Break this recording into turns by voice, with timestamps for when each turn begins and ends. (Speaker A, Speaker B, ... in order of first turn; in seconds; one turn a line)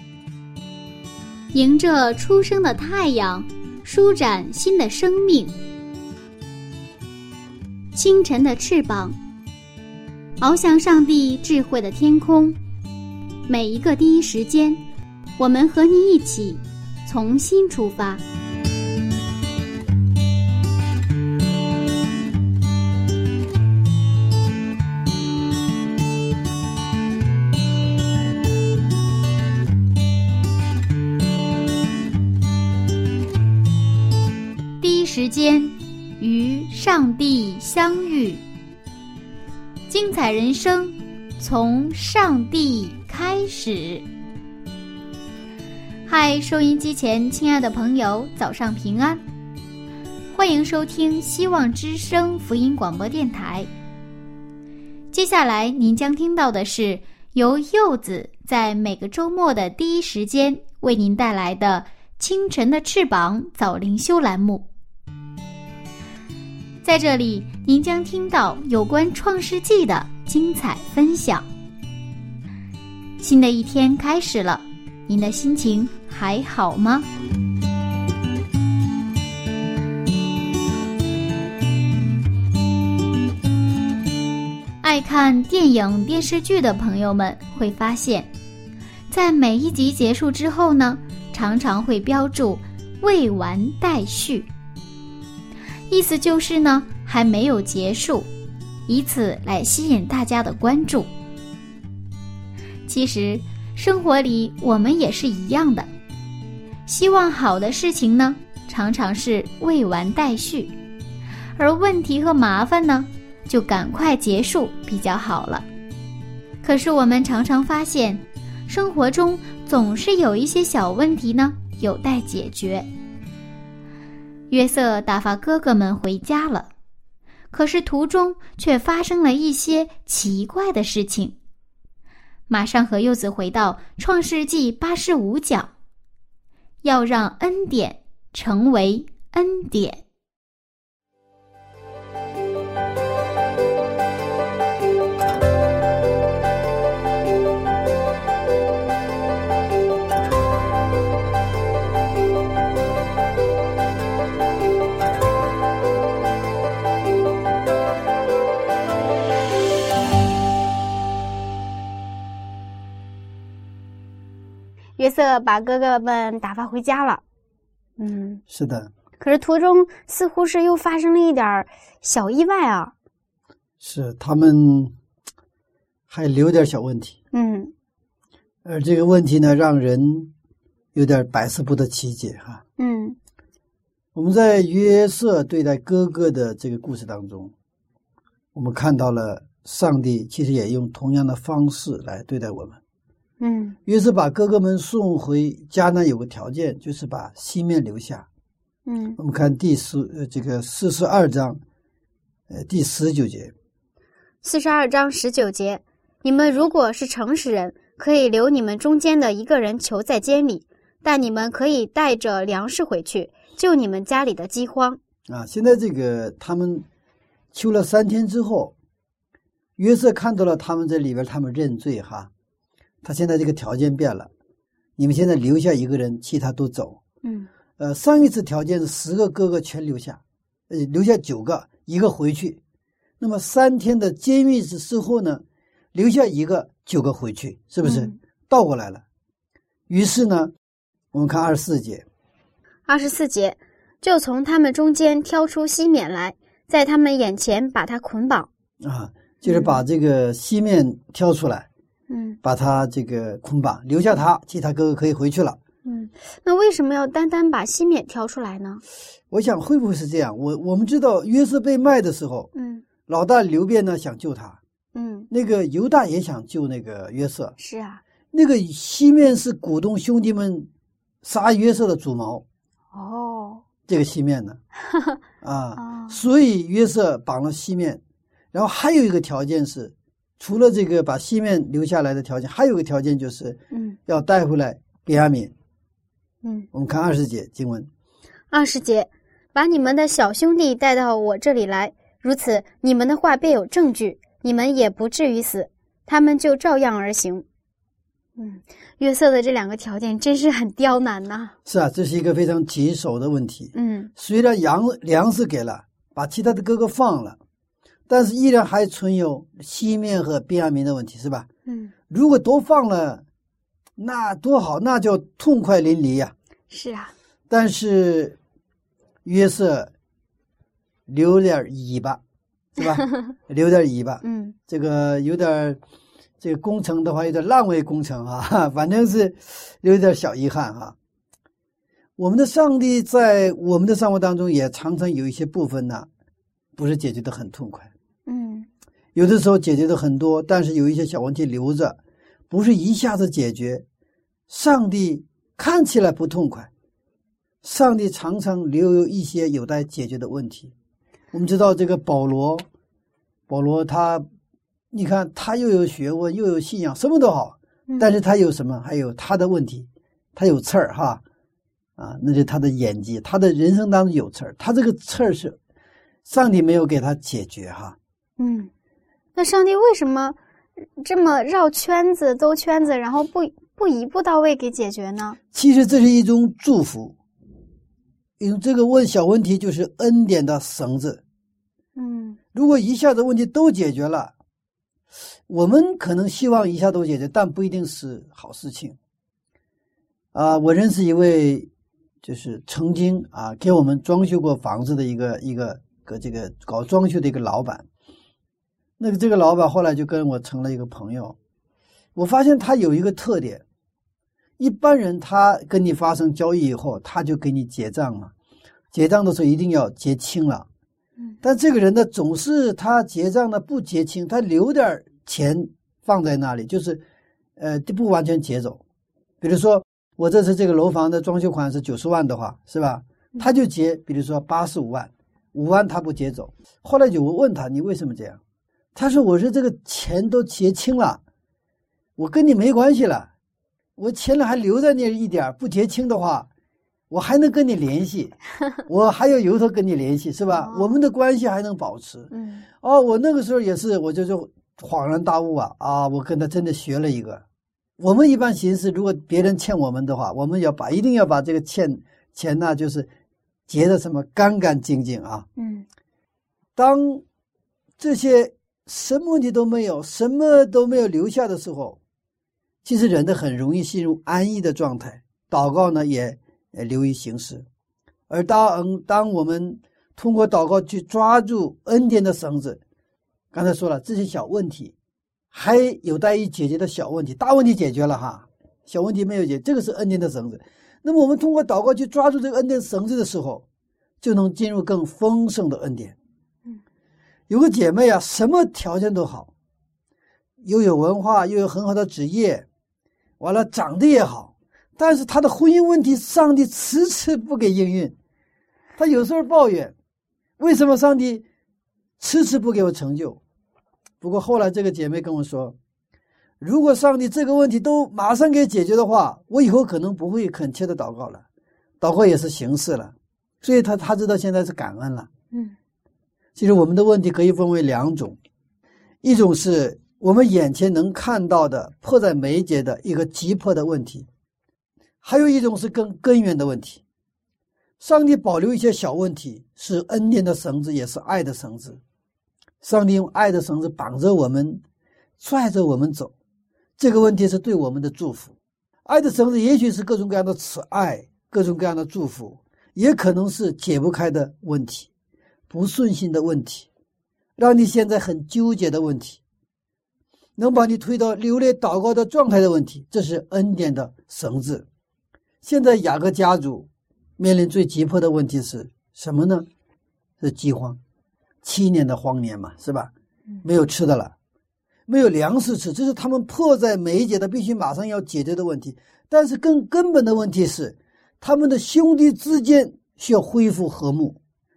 Speaker A: 1.5-5.6
Speaker A: 7.9-9.2
Speaker A: 10.4-12.6
Speaker A: 13.5-14.8
Speaker A: 15.4-18.2
Speaker A: 34.8-38.4
Speaker A: 39.9-44.0
Speaker A: 46.1-49.2
Speaker A: 50.3-53.7
Speaker A: 55.1-64.7
Speaker A: 66.8-71.5
Speaker A: 73.2-77.1
Speaker A: 84.8-88.3
Speaker A: 89.1-94.5
Speaker A: 95.9-98.3
Speaker A: 98.9-101.1
Speaker A: 102.9-105.9
Speaker A: 106.9-110.7
Speaker A: 111.6-115.7
Speaker A: 116.6-122.9
Speaker A: 124.5-126.7
Speaker A: 127.5-131.4
Speaker A: 132.5-135.7
Speaker A: 136.8-140.0
Speaker B: 165.0-167.2
Speaker B: 168.0-168.4
Speaker C: 168.5-168.9
Speaker B: 169.2-172.9
Speaker C: 173.8-174.9
Speaker C: 176.1-177.2
Speaker B: 177.3-177.7
Speaker C: 178.7-180.3
Speaker C: 180.9-182.6
Speaker B: 182.8-183.2
Speaker C: 184.2-187.5
Speaker C: 188.6-192.8
Speaker B: 193.4-193.8
Speaker C: 193.9-198.3
Speaker B: 198.9-199.2
Speaker C: 199.2-201.6
Speaker C: 202.5-203.5
Speaker B: 204.4-215.0
Speaker C: 215.3-216.9
Speaker C: 217.5-218.7
Speaker C: 219.8-222.3
Speaker C: 223.0-224.3
Speaker C: 225.0-227.0
Speaker B: 227.2-227.5
Speaker C: 227.8-232.6
Speaker C: 233.2-239.0
Speaker B: 237.8-238.1
Speaker C: 239.9-240.5
Speaker C: 241.1-242.1
Speaker B: 242.9-248.5
Speaker C: 248.8-251.7
Speaker B: 249.4-249.8
Speaker B: 252.1-252.4
Speaker C: 252.4-255.6
Speaker B: 255.8-258.8
Speaker C: 259.3-262.5
Speaker B: 262.6-262.8
Speaker C: 263.1-264.6
Speaker B: 264.9-265.3
Speaker C: 265.3-267.6
Speaker B: 267.6-268.0
Speaker C: 268.3-270.7
Speaker C: 271.2-272.4
Speaker B: 272.9-273.6
Speaker C: 273.9-274.6
Speaker C: 275.4-278.0
Speaker B: 275.8-276.2
Speaker C: 278.5-285.5
Speaker B: 283.7-284.0
Speaker C: 286.7-287.9
Speaker B: 288.5-297.5
Speaker B: 298.4-301.6
Speaker C: 301.7-307.4
Speaker B: 303.7-304.1
Speaker C: 308.1-311.5
Speaker B: 311.7-311.9
Speaker C: 312.1-313.2
Speaker C: 314.0-316.3
Speaker B: 316.7-317.1
Speaker C: 317.5-318.4
Speaker C: 319.2-319.9
Speaker C: 321.1-322.2
Speaker C: 322.8-325.8
Speaker B: 324.2-324.6
Speaker C: 326.4-331.0
Speaker C: 332.2-336.1
Speaker C: 336.8-337.9
Speaker B: 338.3-338.7
Speaker C: 339.1-342.0
Speaker C: 342.5-343.8
Speaker C: 344.5-346.7
Speaker C: 347.6-350.7
Speaker C: 351.3-352.6
Speaker C: 353.5-354.3
Speaker C: 354.9-361.2
Speaker C: 362.0-365.6
Speaker C: 366.2-368.0
Speaker B: 368.4-368.7
Speaker B: 369.4-370.4
Speaker B: 371.0-375.4
Speaker C: 375.5-377.2
Speaker C: 378.4-381.2
Speaker B: 382.0-382.4
Speaker C: 382.5-384.3
Speaker C: 385.5-389.0
Speaker C: 390.3-391.7
Speaker C: 392.2-397.9
Speaker C: 399.0-401.4
Speaker C: 402.2-403.6
Speaker C: 404.6-408.3
Speaker C: 408.9-410.7
Speaker C: 411.4-417.0
Speaker C: 417.6-418.8
Speaker C: 419.4-428.4
Speaker C: 428.9-431.2
Speaker C: 432.2-433.3
Speaker C: 434.0-436.5
Speaker C: 437.1-442.3
Speaker B: 440.6-440.9
Speaker B: 442.3-442.6
Speaker C: 442.8-447.4
Speaker C: 448.0-453.1
Speaker C: 453.7-455.5
Speaker B: 455.6-455.9
Speaker C: 456.8-457.2
Speaker C: 458.0-462.0
Speaker C: 462.8-467.7
Speaker C: 468.3-472.8
Speaker C: 473.5-474.9
Speaker C: 475.5-483.6
Speaker C: 484.2-486.2
Speaker C: 487.5-489.5
Speaker C: 490.6-492.7
Speaker C: 493.4-498.1
Speaker C: 499.0-499.9
Speaker C: 500.6-501.4
Speaker C: 502.2-503.4
Speaker C: 504.2-505.8
Speaker C: 506.6-511.4
Speaker C: 512.0-515.3
Speaker C: 516.6-518.4
Speaker C: 519.2-524.3
Speaker C: 525.2-527.0
Speaker C: 528.0-532.0
Speaker C: 532.8-534.8
Speaker C: 535.4-536.3
Speaker C: 537.0-538.5
Speaker C: 539.1-545.1
Speaker C: 545.7-546.9
Speaker C: 547.6-549.4
Speaker C: 550.6-554.9
Speaker C: 555.6-559.7
Speaker C: 560.4-561.0
Speaker C: 561.6-563.1
Speaker C: 563.6-564.3
Speaker C: 565.1-574.4